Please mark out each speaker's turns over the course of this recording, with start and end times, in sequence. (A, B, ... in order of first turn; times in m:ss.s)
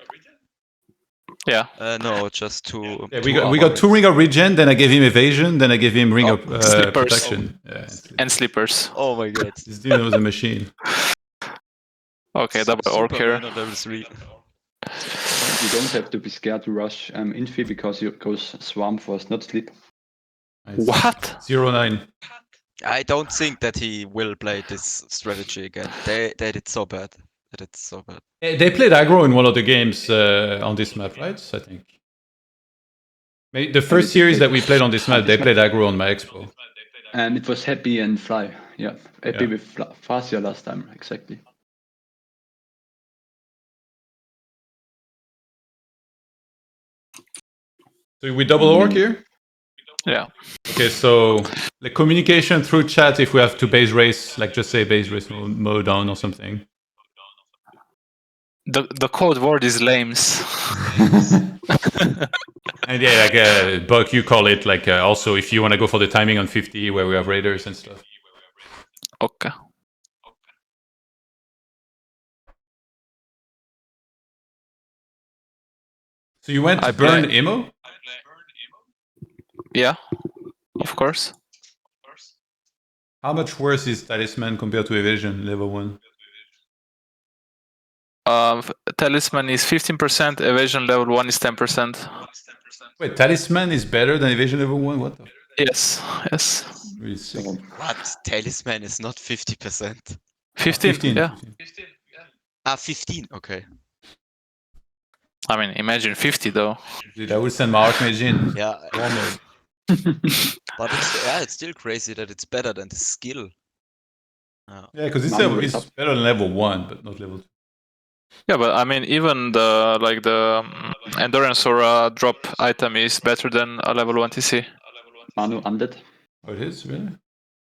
0:01.4-0:01.7 A
0:01.8-0:04.0 B
0:03.1-0:08.3 C
0:06.4-0:07.4 A
0:08.2-0:08.9 A
0:08.9-0:09.6 B
0:09.6-0:10.7 C
0:12.3-0:13.4 A
0:12.5-0:14.3 B
0:15.3-0:19.7 D
0:20.6-0:22.1 C
0:20.8-0:21.4 A
0:22.8-0:28.2 B
0:28.4-0:31.9 C
0:33.5-0:36.5 C
0:33.9-0:35.5 D
0:37.1-0:41.4 D
0:48.2-0:49.2 C
0:48.6-0:49.0 D
0:50.7-0:56.6 C
0:58.6-1:01.0 A
1:02.8-1:08.0 C
1:09.2-1:09.5 A
1:16.4-1:17.7 C
1:16.8-1:17.3 A
1:19.7-1:20.0 A
1:20.8-1:21.3 A
1:23.2-1:26.0 C
1:28.2-1:32.2 A
1:33.0-1:35.3 C
1:35.6-1:36.9 A
1:37.0-1:37.5 C
1:37.3-1:37.7 D
1:37.7-1:40.2 B
1:40.6-1:41.4 A
1:40.7-1:41.5 C
1:42.6-1:43.7 B
1:45.5-1:46.8 A
1:47.1-1:49.4 C
1:48.5-1:49.2 B
1:50.7-1:53.5 B
1:54.9-1:57.4 C
1:55.2-1:55.9 D
1:58.5-2:04.7 A
2:05.3-2:06.0 D
2:06.4-2:07.2 C